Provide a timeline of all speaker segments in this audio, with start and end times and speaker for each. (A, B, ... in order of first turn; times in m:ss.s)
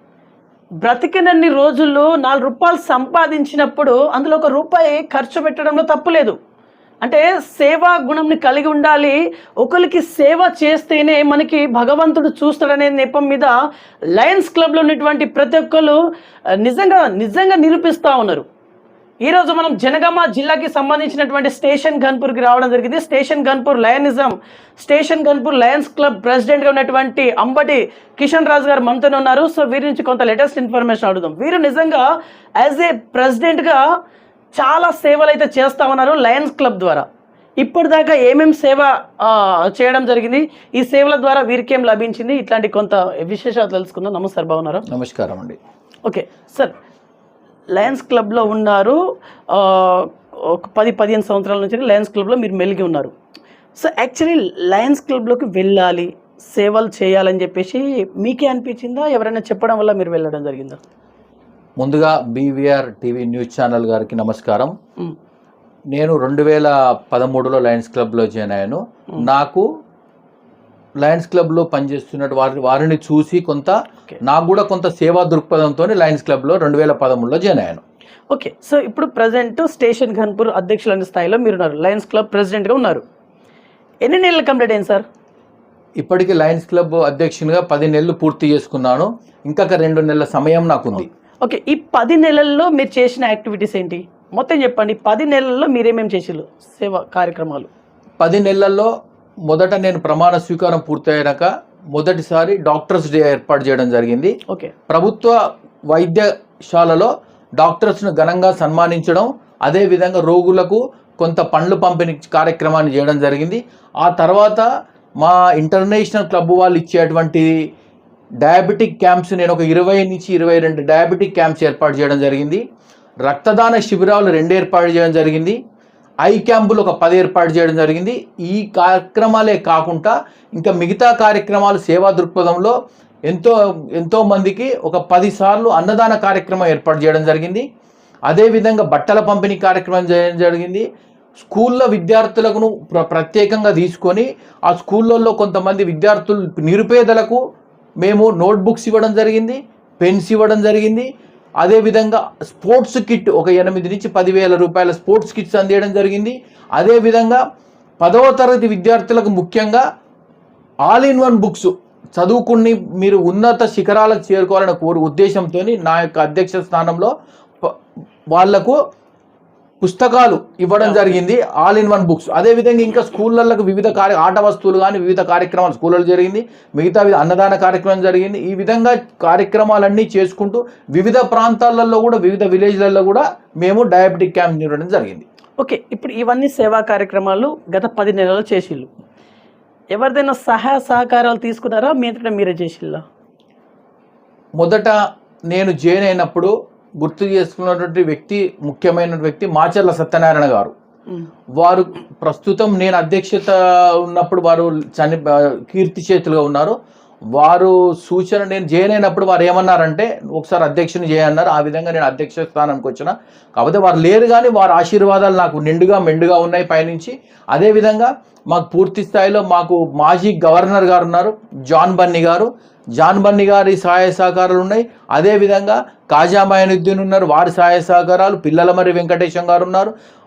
0:00.8-0:06.4 A
0:07.0-0:13.5 A
0:14.1-0:16.0 A
0:16.6-0:18.4 A
0:19.2-0:32.1 A
0:32.6-0:33.8 A
0:34.6-0:37.1 A
0:37.6-0:44.8 A
0:44.9-0:45.6 B
0:46.0-0:46.7 A
0:47.7-0:49.0 A
0:49.5-0:53.1 A
0:53.8-1:00.8 A
1:01.8-1:04.7 B
1:05.9-1:09.7 B
1:11.0-1:17.8 B
1:18.3-1:23.0 A
1:24.0-1:25.0 A
1:26.0-1:31.1 B
1:31.4-1:37.7 A
1:38.2-1:38.9 B
1:39.5-1:44.4 B
1:44.9-1:45.4 B
1:45.9-1:54.7 B
1:55.2-1:57.7 B
1:58.4-2:02.6 B
2:03.2-2:05.6 B
2:06.2-2:12.8 B
2:13.3-2:17.7 B
2:18.3-2:20.9 B
2:21.4-2:27.4 B
2:28.0-2:31.1 B
2:31.6-2:37.4 B
2:38.0-2:39.8 B
2:40.9-2:47.8 B
2:48.3-2:48.8 B
2:49.8-3:05.2 B
3:05.6-3:08.9 A
3:09.9-3:13.0 A
3:14.6-3:15.0 B
3:15.5-3:20.7 B
3:21.6-3:26.8 B
3:27.4-3:49.9 B